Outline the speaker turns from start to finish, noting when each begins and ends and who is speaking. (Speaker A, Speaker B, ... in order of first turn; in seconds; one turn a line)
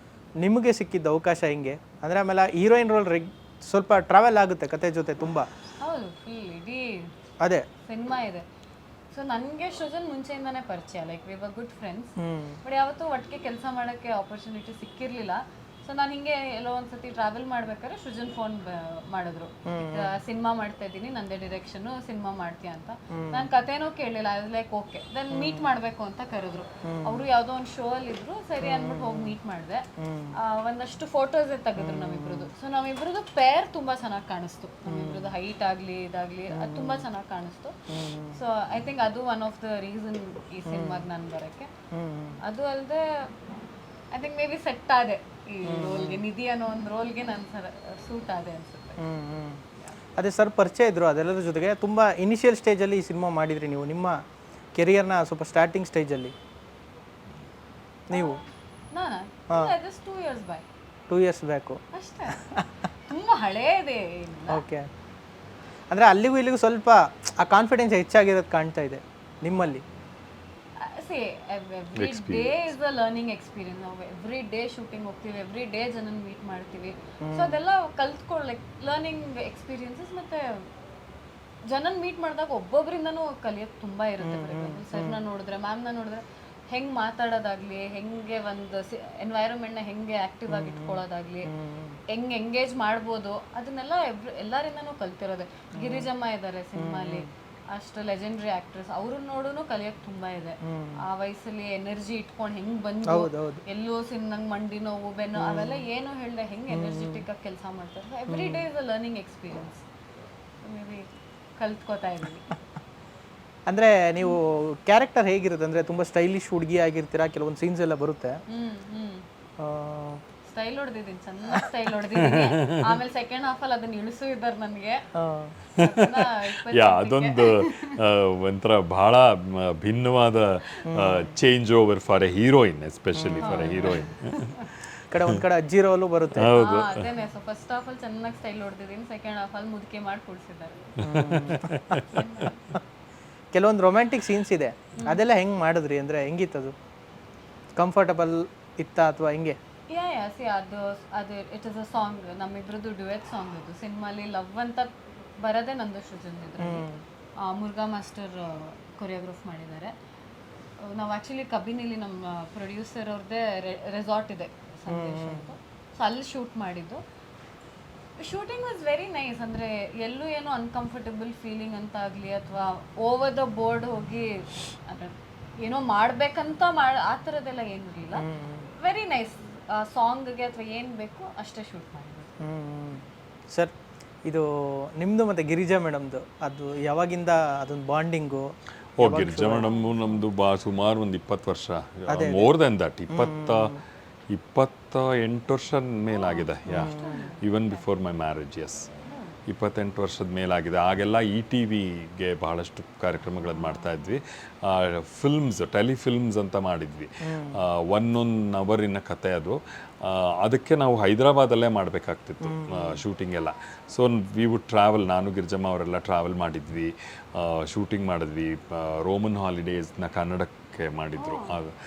Speaker A: 0.4-5.5
Speaker B: 5.8-7.1
Speaker B: 7.8-8.4
Speaker B: 9.1-29.8
Speaker A: 12.2-12.6
Speaker A: 19.7-20.1
Speaker A: 23.1-23.5
Speaker A: 25.3-25.7
Speaker A: 26.9-27.2
Speaker A: 28.6-29.3
Speaker A: 30.0-30.4
Speaker B: 30.3-37.7
Speaker A: 31.8-32.5
Speaker A: 34.9-35.3
Speaker A: 36.5-37.0
Speaker A: 37.9-38.4
Speaker B: 38.3-41.7
Speaker A: 40.7-41.0
Speaker A: 41.9-42.4
Speaker B: 42.4-43.3
Speaker B: 44.1-49.0
Speaker A: 45.6-46.2
Speaker A: 49.0-49.6
Speaker A: 50.2-54.2
Speaker A: 54.7-56.3
Speaker A: 58.1-58.4
Speaker B: 58.1-60.6
Speaker A: 61.1-61.8
Speaker B: 61.9-62.5
Speaker A: 62.3-62.6
Speaker B: 63.1-64.6
Speaker A: 64.5-64.8
Speaker A: 65.9-69.8
Speaker B: 70.8-80.7
Speaker C: 72.0-72.6
Speaker A: 77.2-77.6
Speaker B: 81.7-91.5
Speaker A: 84.2-85.2
Speaker A: 90.5-92.0
Speaker B: 92.1-109.8
Speaker A: 95.8-96.1
Speaker A: 96.8-97.3
Speaker A: 100.7-101.0
Speaker A: 103.1-103.6
Speaker A: 105.4-105.8
Speaker A: 106.7-107.2
Speaker A: 108.3-108.7
Speaker B: 110.6-112.5
Speaker A: 113.7-118.4
Speaker B: 118.5-119.2
Speaker A: 119.6-120.2
Speaker B: 120.4-125.0
Speaker C: 122.4-122.8
Speaker A: 125.2-125.5
Speaker B: 125.7-128.0
Speaker C: 126.7-134.5
Speaker A: 130.8-131.3
Speaker A: 133.2-134.0
Speaker B: 133.4-134.7
Speaker A: 135.1-136.5
Speaker C: 136.5-137.1
Speaker B: 136.5-140.9
Speaker A: 141.0-141.7
Speaker C: 141.1-142.2
Speaker B: 141.9-142.8
Speaker A: 143.5-146.7
Speaker B: 145.0-145.2
Speaker A: 147.8-149.6
Speaker B: 149.9-156.9
Speaker A: 156.6-157.0
Speaker B: 157.4-159.9
Speaker B: 160.8-167.0
Speaker A: 164.9-165.5
Speaker B: 168.2-178.2
Speaker A: 178.2-178.7
Speaker B: 178.8-182.3
Speaker A: 182.4-183.7
Speaker A: 184.3-189.7
Speaker C: 189.0-193.7
Speaker A: 192.1-192.6
Speaker A: 193.1-193.8
Speaker C: 194.3-198.9
Speaker B: 196.3-197.8
Speaker A: 196.7-197.2
Speaker B: 199.0-199.4
Speaker C: 199.5-207.1
Speaker B: 203.5-203.9
Speaker A: 207.2-207.6
Speaker C: 207.7-221.7
Speaker A: 212.4-213.0
Speaker B: 221.2-221.6